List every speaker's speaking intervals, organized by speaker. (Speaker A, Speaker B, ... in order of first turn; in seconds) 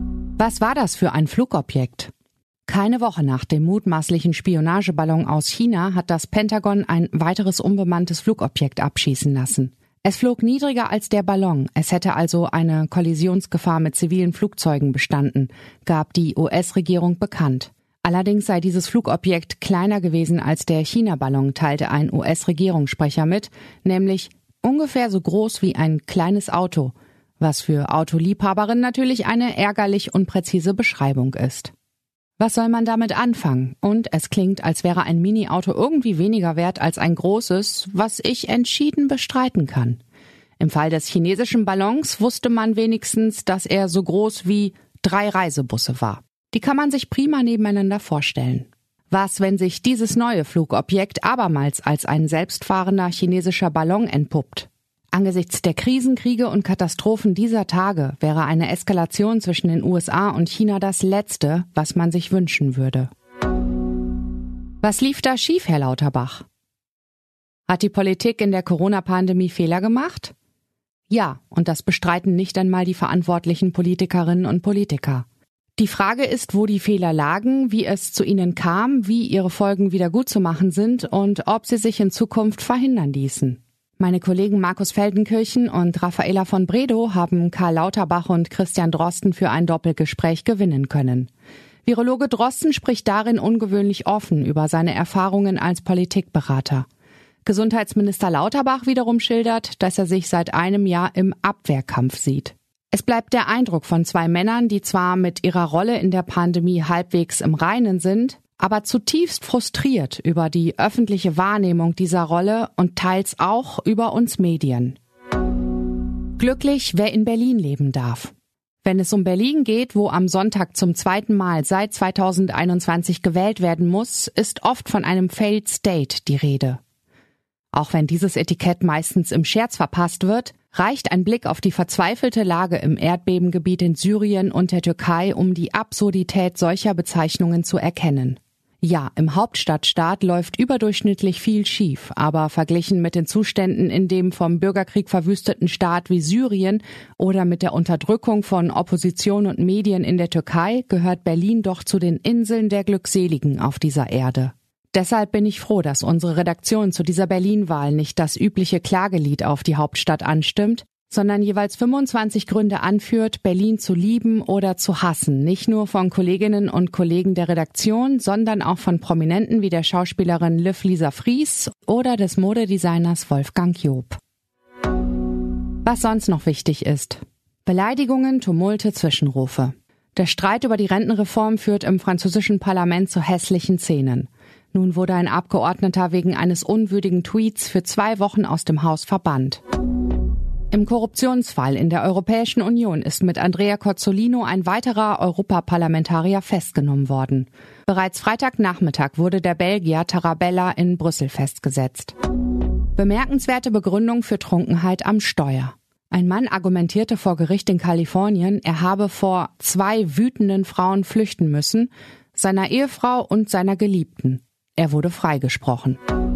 Speaker A: 0.4-2.1, 2.7-31.7, 32.4-40.0, 40.6-63.1, 64.8-66.4, 67.7-70.3, 71.1-75.2, 75.8-91.3, 91.8-96.8, 97.4-115.0, 116.4-118.3, 118.8-126.8, 127.7-174.2, 175.8-189.6, 190.7-202.1, 202.9-216.0